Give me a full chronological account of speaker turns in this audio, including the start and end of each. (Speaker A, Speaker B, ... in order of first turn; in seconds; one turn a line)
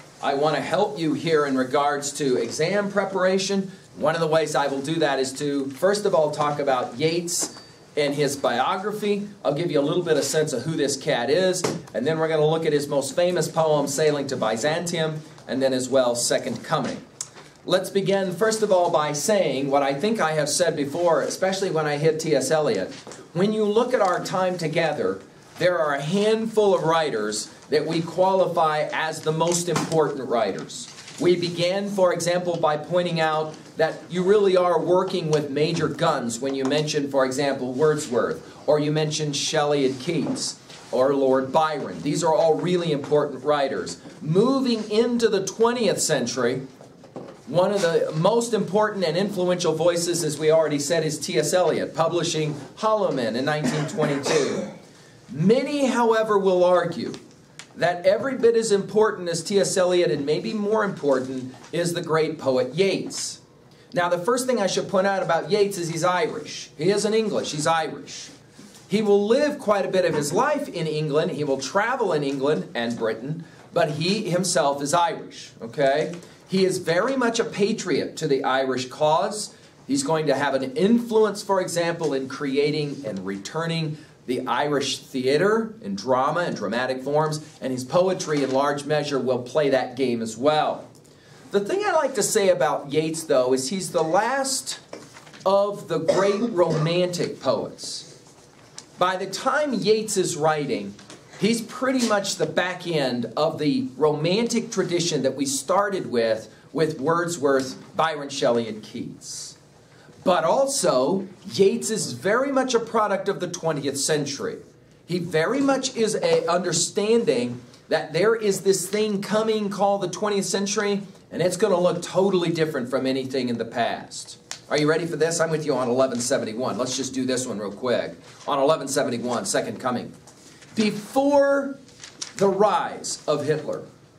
Speaker A: 0.2-17.0
Speaker A: 17.6-46.6
Speaker A: 47.5-54.7
Speaker A: 55.3-57.2
Speaker A: 57.8-63.4
Speaker A: 63.9-68.3
Speaker A: 68.9-90.9
Speaker A: 91.5-94.8
Speaker A: 95.5-98.1
Speaker A: 99.0-109.6
Speaker A: 110.2-130.1
Speaker A: 130.7-131.8
Speaker A: 132.4-133.9